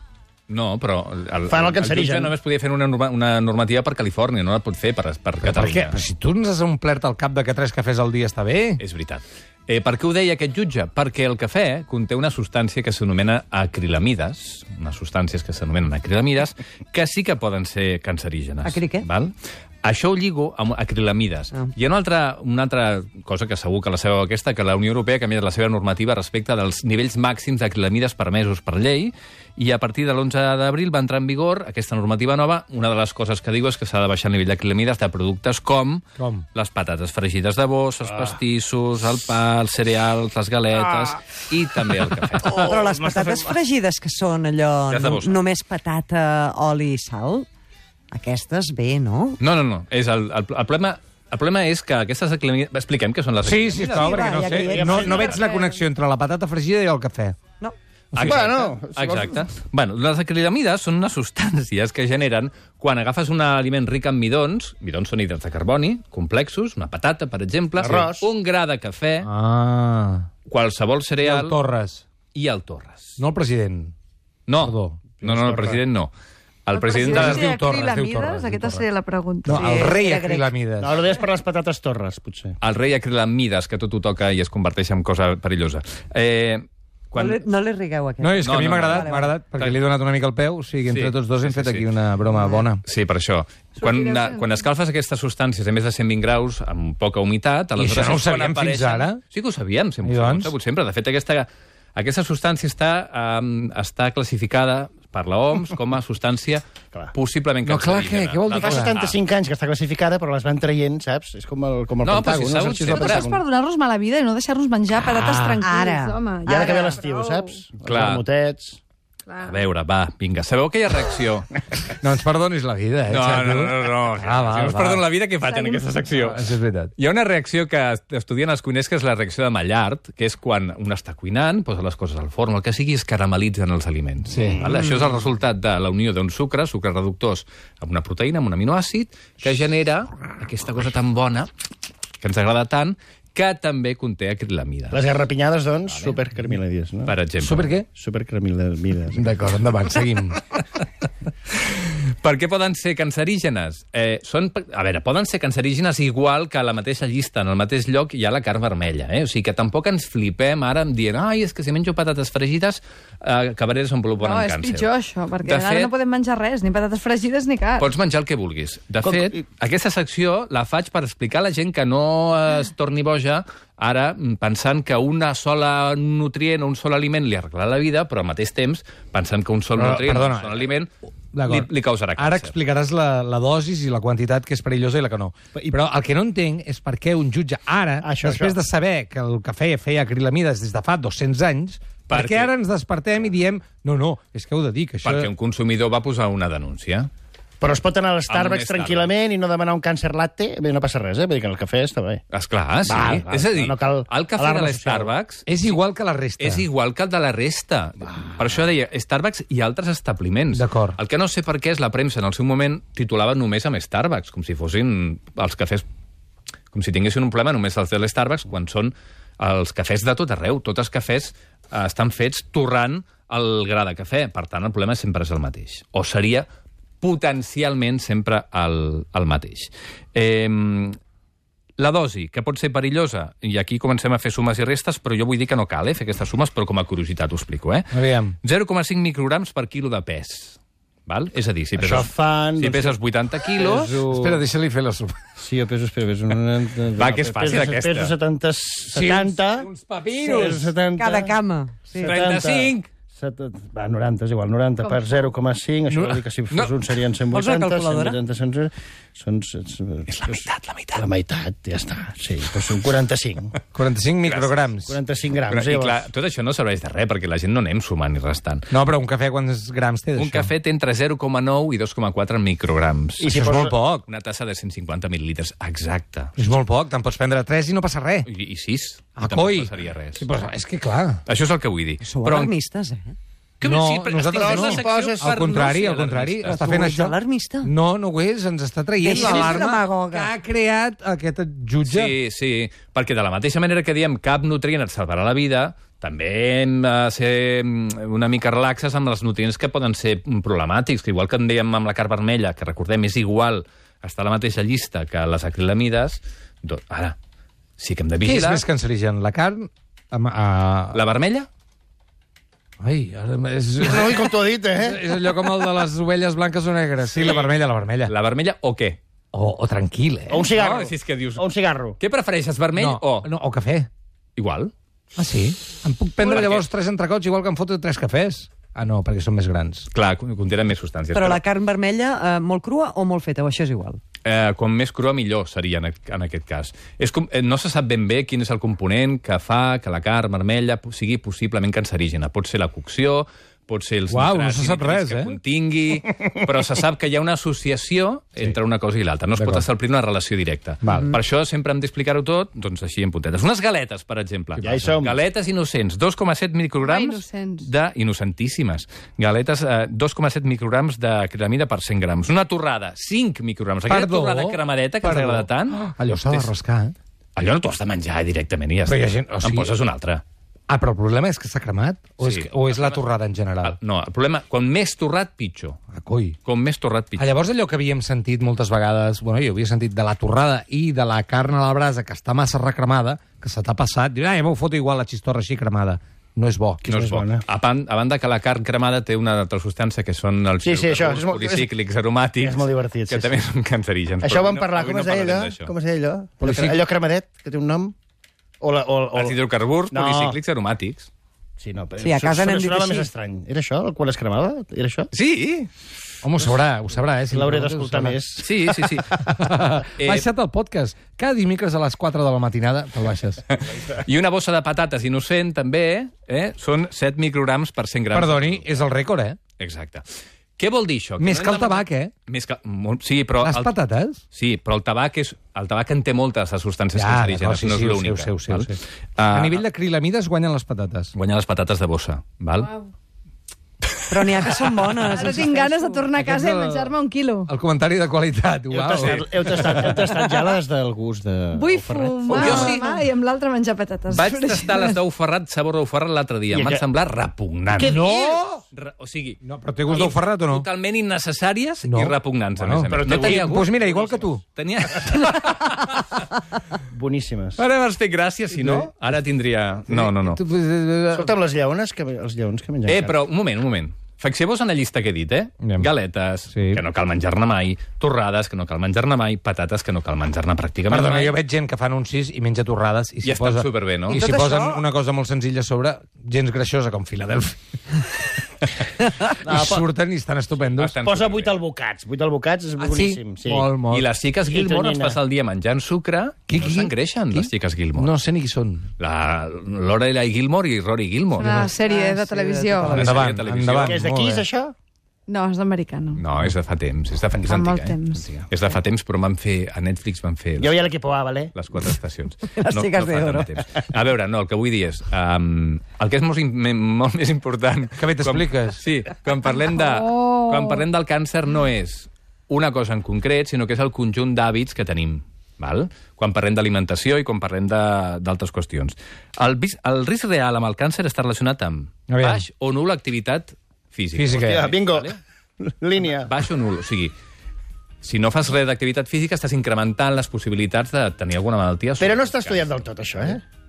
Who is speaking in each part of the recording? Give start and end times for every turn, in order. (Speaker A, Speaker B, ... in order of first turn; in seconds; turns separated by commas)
Speaker A: 0.5-6.0, Speaker B: 1.4-2.4, Speaker C: 5.4-8.8, Speaker A: 8.8-42.6, Speaker D: 18.6-19.1, Speaker C: 36.2-36.4, Speaker B: 42.4-43.5, Speaker D: 42.4-47.5, Speaker A: 44.9-45.4, Speaker D: 48.1-49.4, Speaker A: 49.4-54.2, Speaker C: 53.4-57.4, Speaker D: 53.7-55.5, Speaker B: 54.6-55.5, Speaker A: 58.1-69.3, Speaker B: 58.1-59.4, Speaker C: 58.1-58.4, Speaker B: 67.8-68.3, Speaker C: 69.2-70.3, Speaker A: 70.4-71.6, Speaker C: 71.2-72.0, Speaker A: 72.3-73.2, Speaker C: 73.2-73.9, Speaker A: 74.5-76.1, Speaker C: 74.6-75.2, Speaker B: 75.2-75.8, Speaker A: 76.7-77.2, Speaker E: 76.7-79.7, Speaker C: 77.0-78.8, Speaker C: 79.4-81.0, Speaker D: 79.5-80.5, Speaker B: 80.8-82.6, Speaker A: 82.6-87.4, Speaker D: 87.1-89.4, Speaker C: 88.2-92.8, Speaker A: 88.4-89.8, Speaker A: 90.9-91.9, Speaker A: 92.8-109.2, Speaker E: 93.8-94.6, Speaker C: 97.8-99.2, Speaker C: 100.0-100.5, Speaker C: 107.6-108.9, Speaker B: 108.6-113.4, Speaker A: 112.0-113.3, Speaker E: 112.9-117.6, Speaker D: 115.2-116.2, Speaker B: 116.5-118.8, Speaker A: 117.8-118.2, Speaker E: 119.3-119.6, Speaker A: 119.4-121.5, Speaker C: 122.0-125.0, Speaker A: 123.1-141.5, Speaker E: 125.4-125.9, Speaker C: 126.2-126.9, Speaker C: 134.3-134.7, Speaker A: 142.2-145.0, Speaker B: 144.9-147.2, Speaker A: 145.9-146.2, Speaker A: 147.1-147.7, Speaker C: 147.4-147.8, Speaker B: 147.8-149.4, Speaker C: 149.1-150.4, Speaker A: 151.5-164.9, Speaker E: 164.2-167.9, Speaker A: 165.4-165.9, Speaker A: 167.8-180.9, Speaker B: 169.0-169.4, Speaker C: 179.7-180.6, Speaker C: 181.3-195.3, Speaker A: 181.4-182.5, Speaker B: 188.0-188.6, Speaker A: 192.1-192.5, Speaker A: 195.0-197.1, Speaker B: 197.6-202.2, Speaker A: 198.3-199.1, Speaker A: 202.3-205.8, Speaker B: 202.9-205.2, Speaker C: 205.5-206.7, Speaker A: 206.4-215.8, Speaker C: 210.5-211.0, Speaker A: 216.7-226.4, Speaker A: 227.0-231.0, Speaker A: 231.8-244.0, Speaker C: 237.9-238.3, Speaker B: 241.8-243.0, Speaker B: 243.5-244.4, Speaker C: 243.9-245.2, Speaker B: 245.4-251.4, Speaker A: 246.9-248.2, Speaker C: 248.9-250.7, Speaker D: 250.9-252.2, Speaker B: 251.9-263.6, Speaker A: 252.0-252.9, Speaker E: 254.8-255.3, Speaker C: 255.9-256.2, Speaker D: 257.3-258.2, Speaker A: 260.1-261.1, Speaker C: 263.7-265.0, Speaker A: 264.2-264.7, Speaker B: 264.9-266.1, Speaker A: 265.5-268.7, Speaker C: 268.7-270.5, Speaker A: 270.1-273.4, Speaker B: 273.2-273.8, Speaker C: 273.3-274.0, Speaker A: 273.9-276.4, Speaker C: 276.4-278.3, Speaker A: 278.2-280.2, Speaker C: 279.2-281.2, Speaker A: 281.2-282.6, Speaker D: 282.0-283.1, Speaker A: 283.6-286.8, Speaker C: 283.6-292.1, Speaker B: 284.2-285.7, Speaker D: 286.4-287.7, Speaker D: 289.0-290.3, Speaker A: 291.8-307.1, Speaker A: 307.8-308.6, Speaker C: 308.2-311.0, Speaker A: 310.9-311.5, Speaker C: 312.8-318.1, Speaker B: 313.8-315.1, Speaker A: 317.2-317.5, Speaker A: 318.0-319.0, Speaker C: 319.3-320.5, Speaker B: 320.3-322.0, Speaker A: 320.4-321.4, Speaker A: 322.0-323.3, Speaker C: 322.8-323.9, Speaker A: 324.4-324.7, Speaker C: 325.1-329.9, Speaker A: 326.2-326.6, Speaker A: 329.9-331.4, Speaker D: 331.1-334.0, Speaker A: 334.2-366.5, Speaker C: 344.1-345.4, Speaker C: 349.4-349.6, Speaker B: 354.6-355.2, Speaker C: 354.6-354.9, Speaker E: 356.8-357.7, Speaker C: 363.9-366.9, Speaker A: 367.4-370.2, Speaker C: 368.9-369.7, Speaker C: 370.7-373.8, Speaker A: 372.2-373.1, Speaker A: 373.6-375.8, Speaker C: 375.9-376.4, Speaker A: 376.4-377.3, Speaker C: 377.2-386.8, Speaker B: 386.8-387.4, Speaker A: 386.8-395.7, Speaker B: 390.6-391.7, Speaker B: 392.4-393.4, Speaker B: 394.2-397.9, Speaker C: 396.4-396.8, Speaker B: 398.6-400.4, Speaker A: 399.1-401.1, Speaker B: 401.6-405.1, Speaker D: 402.0-403.1, Speaker A: 405.1-405.7, Speaker C: 406.2-408.2, Speaker B: 407.3-409.3, Speaker A: 408.4-409.2, Speaker C: 409.2-413.4, Speaker A: 410.0-410.3, Speaker A: 413.5-418.7, Speaker C: 418.1-419.4, Speaker A: 419.6-420.0, Speaker A: 420.6-423.8, Speaker C: 421.2-422.1, Speaker C: 423.4-424.2, Speaker A: 424.3-429.6, Speaker C: 426.9-431.1, Speaker A: 431.1-432.7, Speaker D: 434.1-436.1, Speaker E: 435.1-437.5, Speaker C: 436.2-436.9, Speaker C: 437.5-440.0, Speaker B: 438.7-442.8, Speaker A: 438.9-439.4, Speaker E: 441.5-445.0, Speaker A: 442.3-443.1, Speaker A: 444.1-448.0, Speaker B: 446.5-446.8, Speaker B: 447.7-448.4, Speaker C: 447.8-448.6, Speaker A: 448.6-453.8, Speaker C: 449.4-450.7, Speaker C: 451.8-454.4, Speaker B: 452.9-454.2, Speaker A: 454.4-456.3, Speaker B: 456.9-457.6, Speaker A: 457.6-460.4, Speaker C: 458.5-458.9, Speaker C: 459.9-461.3, Speaker B: 461.1-463.2, Speaker A: 462.9-471.3, Speaker C: 465.6-465.9, Speaker C: 466.5-466.8, Speaker C: 470.9-478.3, Speaker A: 473.2-474.2, Speaker D: 474.1-474.8, Speaker B: 479.4-479.8, Speaker C: 479.4-481.0, Speaker A: 480.6-481.6, Speaker B: 481.0-483.7, Speaker C: 482.8-484.0, Speaker A: 483.9-488.1, Speaker B: 484.4-485.2, Speaker C: 486.5-488.9, Speaker A: 489.0-491.6, Speaker E: 491.4-493.1, Speaker D: 491.4-493.2, Speaker C: 492.9-494.4, Speaker A: 492.9-494.0, Speaker B: 493.1-494.7, Speaker E: 495.3-496.3, Speaker A: 496.2-500.9, Speaker E: 497.4-498.4, Speaker B: 500.6-501.5, Speaker A: 501.5-525.2, Speaker D: 502.5-503.5, Speaker C: 508.0-508.8, Speaker E: 509.6-510.8, Speaker C: 522.1-522.4, Speaker C: 524.1-524.7, Speaker B: 524.4-526.3, Speaker A: 526.0-527.1, Speaker A: 528.0-532.7, Speaker B: 532.0-533.4